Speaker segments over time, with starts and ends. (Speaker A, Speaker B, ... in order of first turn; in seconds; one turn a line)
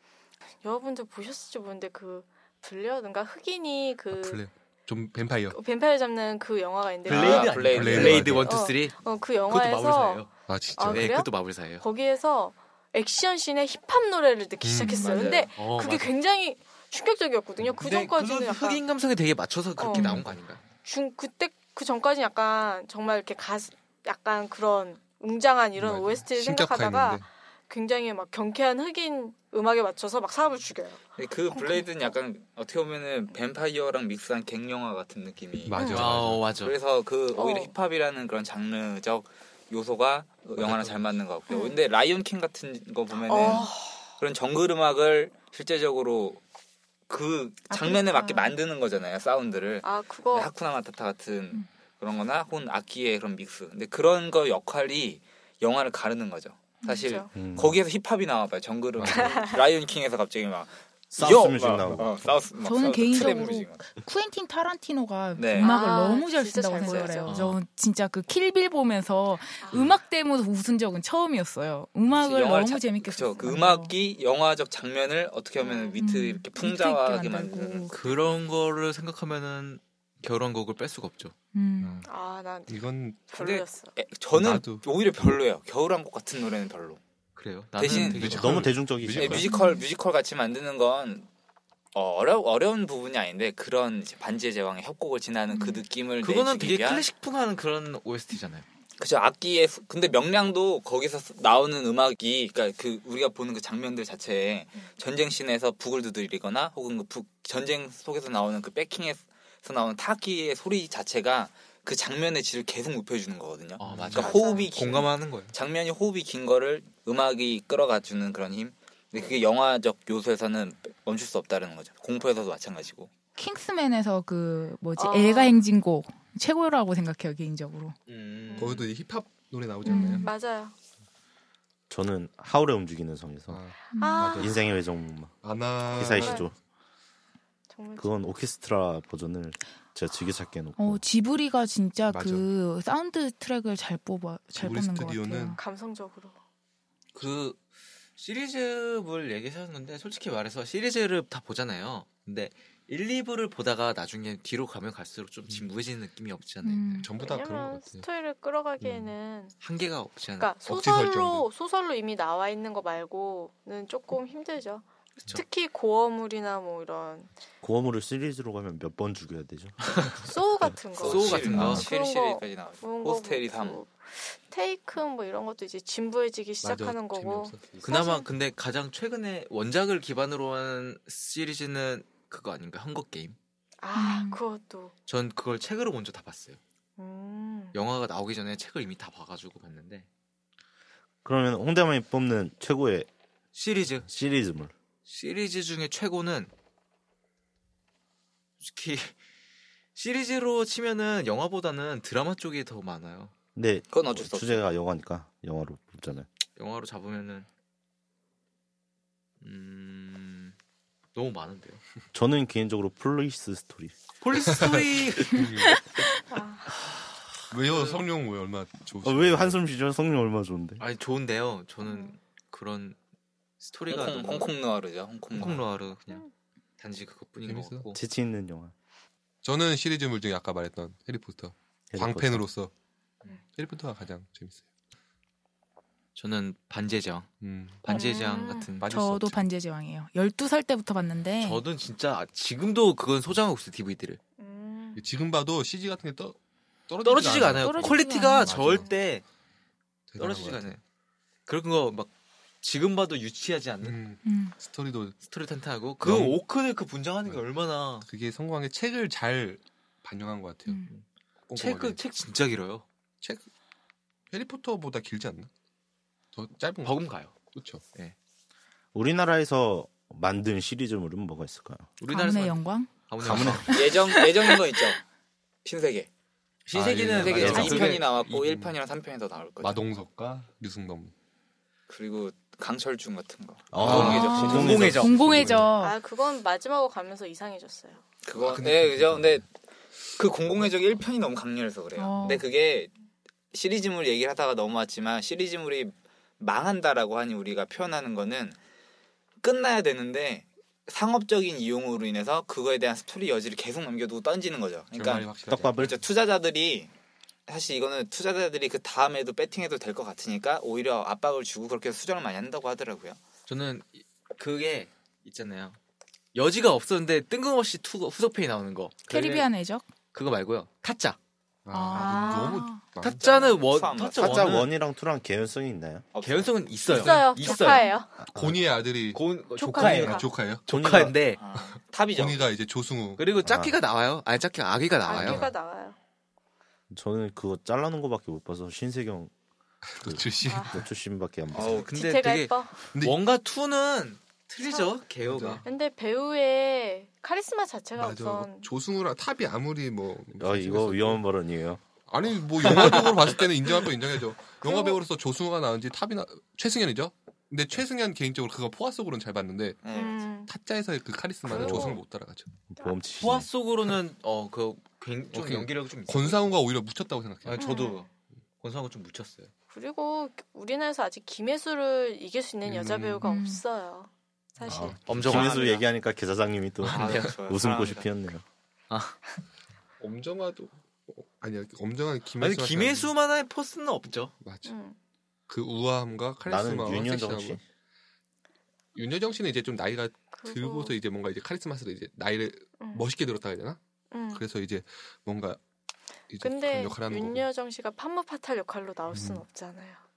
Speaker A: 0.6-4.4
Speaker B: 4.1-5.5
Speaker A: 5.5-18.8
Speaker C: 7.1-8.4
Speaker D: 7.1-11.8
Speaker B: 7.4-8.6
Speaker B: 10.5-11.1
Speaker B: 14.6-15.0
Speaker E: 14.9-15.3
Speaker C: 14.9-15.6
Speaker D: 15.5-16.1
Speaker D: 17.8-20.6
Speaker A: 19.8-20.2
Speaker B: 20.0-20.4
Speaker A: 20.8-32.1
Speaker B: 25.8-27.3
Speaker C: 31.2-46.4
Speaker B: 35.6-36.6
Speaker A: 35.8-36.1
Speaker D: 35.8-36.8
Speaker A: 37.3-37.7
Speaker B: 40.6-41.0
Speaker A: 41.5-41.8
Speaker A: 43.2-44.1
Speaker C: 47.1-63.9
Speaker A: 47.7-48.5
Speaker A: 49.8-50.5
Speaker A: 56.8-57.3
Speaker F: 57.3-57.8
Speaker B: 59.0-59.4
Speaker A: 59.0-59.6
Speaker F: 61.1-62.4
Speaker E: 62.6-73.9
Speaker C: 65.3-66.0
Speaker A: 65.6-67.4
Speaker C: 66.8-67.2
Speaker D: 67.3-67.6
Speaker C: 72.1-78.1
Speaker A: 75.6-76.0
Speaker E: 76.0-78.0
Speaker D: 77.9-81.3
Speaker E: 81.5-82.0
Speaker B: 81.8-82.1
Speaker A: 82.0-83.9
Speaker B: 82.7-83.3
Speaker C: 83.4-87.0
Speaker B: 84.3-85.3
Speaker D: 87.3-88.7
Speaker C: 87.8-88.4
Speaker B: 87.9-89.5
Speaker F: 88.2-89.5
Speaker C: 89.2-91.3
Speaker E: 89.4-89.8
Speaker C: 91.9-97.0
Speaker E: 95.5-95.8
Speaker D: 96.2-98.7
Speaker C: 99.0-123.1
Speaker D: 113.8-115.5
Speaker B: 113.8-114.3
Speaker A: 114.2-114.8
Speaker E: 123.4-127.9
Speaker A: 125.0-125.6
Speaker D: 128.1-128.8
Speaker A: 128.5-128.9
Speaker B: 128.6-130.2
Speaker A: 129.8-130.7
Speaker E: 129.8-130.3
Speaker F: 131.9-133.6
Speaker B: 133.5-134.6
Speaker E: 133.9-134.4
Speaker A: 133.9-134.6
Speaker F: 134.4-136.6
Speaker B: 135.4-136.5
Speaker A: 136.1-136.5
Speaker A: 137.7-138.2
Speaker F: 138.0-141.0
Speaker E: 140.8-145.6
Speaker B: 142.1-142.5
Speaker B: 144.5-145.6
Speaker A: 145.5-146.3
Speaker D: 147.1-147.6
Speaker D: 148.2-157.1
Speaker E: 156.6-157.1
Speaker B: 157.0-158.0
Speaker A: 157.2-159.6
Speaker B: 158.8-159.1
Speaker D: 159.6-160.5
Speaker A: 160.4-167.3
Speaker B: 160.6-161.5
Speaker F: 167.6-169.9
Speaker A: 170.2-178.3
Speaker C: 171.0-173.8
Speaker D: 171.0-171.9
Speaker B: 171.1-171.8
Speaker F: 171.5-171.8
Speaker B: 176.6-177.9
Speaker D: 177.8-183.3
Speaker A: 183.8-184.9
Speaker E: 183.9-184.4
Speaker D: 185.1-186.6
Speaker A: 187.0-187.8
Speaker D: 187.7-190.1
Speaker F: 191.2-193.1
Speaker D: 193.5-194.1
Speaker F: 194.0-194.7
Speaker D: 195.1-196.5
Speaker D: 198.6-199.2
Speaker D: 199.9-203.3
Speaker F: 203.5-206.3
Speaker C: 203.9-204.6
Speaker D: 206.6-207.5
Speaker D: 209.4-210.5
Speaker D: 211.1-211.8
Speaker F: 212.1-213.9
Speaker D: 214.2-215.5
Speaker B: 214.6-215.8
Speaker A: 216.3-216.7
Speaker B: 217.5-219.6
Speaker D: 217.7-218.0
Speaker F: 219.0-220.8
Speaker D: 220.8-223.0
Speaker A: 221.8-222.2
Speaker D: 223.6-224.5
Speaker C: 223.9-225.7
Speaker D: 225.3-226.2
Speaker D: 226.8-228.0
Speaker B: 227.4-227.9
Speaker F: 227.9-228.7
Speaker B: 229.4-232.7
Speaker F: 231.9-232.4
Speaker B: 233.5-234.6
Speaker D: 236.2-237.3
Speaker B: 237.4-239.4
Speaker D: 237.8-238.9
Speaker A: 237.9-238.7
Speaker E: 238.8-241.6
Speaker D: 241.4-244.2
Speaker A: 244.4-245.0
Speaker B: 244.9-246.4
Speaker B: 246.9-248.9
Speaker D: 247.0-249.2
Speaker E: 247.4-248.6
Speaker B: 250.1-250.7
Speaker D: 250.2-250.8
Speaker D: 251.5-254.0
Speaker B: 253.8-255.2
Speaker E: 254.2-254.6
Speaker D: 255.2-258.1
Speaker B: 256.0-256.4
Speaker B: 258.0-260.8
Speaker B: 261.5-262.0
Speaker D: 261.6-262.8
Speaker B: 264.3-265.5
Speaker B: 266.3-267.8
Speaker D: 266.8-268.1
Speaker F: 268.9-271.9
Speaker D: 272.0-274.5
Speaker E: 272.1-273.0
Speaker F: 273.2-273.7
Speaker E: 273.7-274.6
Speaker C: 273.7-275.0
Speaker C: 275.6-276.1
Speaker D: 276.7-278.4
Speaker B: 276.7-278.8
Speaker C: 277.1-279.9
Speaker F: 277.3-277.9
Speaker B: 279.6-281.1
Speaker C: 281.9-284.9
Speaker F: 283.7-285.5
Speaker B: 283.8-285.7
Speaker D: 283.8-285.2
Speaker E: 284.1-286.0
Speaker A: 285.8-288.0
Speaker C: 288.2-289.5
Speaker B: 288.4-289.4
Speaker C: 290.1-292.9
Speaker E: 292.0-292.4
Speaker C: 293.5-298.6
Speaker C: 299.4-306.9
Speaker B: 304.9-305.9
Speaker F: 305.5-306.0
Speaker C: 307.5-313.2
Speaker D: 313.5-315.8
Speaker D: 316.3-319.5
Speaker E: 319.1-319.8
Speaker D: 320.1-321.2
Speaker B: 321.6-323.2
Speaker E: 321.7-322.9
Speaker A: 321.9-322.7
Speaker D: 323.0-324.7
Speaker C: 323.2-324.6
Speaker F: 324.2-326.1
Speaker C: 326.1-326.5
Speaker D: 326.2-327.9
Speaker A: 326.9-328.1
Speaker B: 326.9-327.3
Speaker E: 327.6-327.9
Speaker B: 328.2-330.7
Speaker F: 328.3-328.6
Speaker D: 329.1-331.4
Speaker A: 329.6-330.3
Speaker F: 330.7-331.1
Speaker C: 331.4-332.5
Speaker B: 332.1-333.2
Speaker D: 333.2-335.5
Speaker F: 333.4-333.8
Speaker A: 335.0-336.0
Speaker B: 335.1-335.5
Speaker F: 336.9-339.3
Speaker B: 339.9-340.8
Speaker F: 340.0-341.9
Speaker A: 340.4-340.8
Speaker D: 341.6-345.6
Speaker C: 341.6-341.8
Speaker A: 341.9-342.8
Speaker B: 342.9-343.2
Speaker A: 344.6-345.0
Speaker B: 345.2-345.6
Speaker A: 345.6-348.7
Speaker B: 347.9-351.2
Speaker F: 350.4-351.8
Speaker B: 352.1-359.8
Speaker D: 352.6-353.3
Speaker A: 354.6-355.0
Speaker C: 359.8-360.2
Speaker A: 359.9-360.5
Speaker B: 360.5-362.5
Speaker F: 361.5-361.9
Speaker A: 361.5-362.0
Speaker F: 362.7-363.5
Speaker D: 363.2-366.5
Speaker B: 365.3-367.8
Speaker D: 367.4-369.5
Speaker A: 367.6-368.1
Speaker A: 369.7-375.0
Speaker B: 372.6-373.2
Speaker E: 373.2-373.6
Speaker F: 374.6-378.4
Speaker D: 375.1-375.8
Speaker D: 376.8-377.4
Speaker C: 376.9-378.1
Speaker D: 378.9-379.2
Speaker B: 380.0-383.1
Speaker D: 382.4-384.3
Speaker B: 384.4-384.7
Speaker A: 384.6-385.0
Speaker B: 385.5-387.6
Speaker F: 386.4-387.6
Speaker B: 388.9-393.8
Speaker A: 390.3-390.9
Speaker A: 392.8-393.1
Speaker A: 394.1-394.4
Speaker B: 394.3-395.6
Speaker B: 396.3-397.4
Speaker A: 396.4-400.0
Speaker B: 399.1-399.4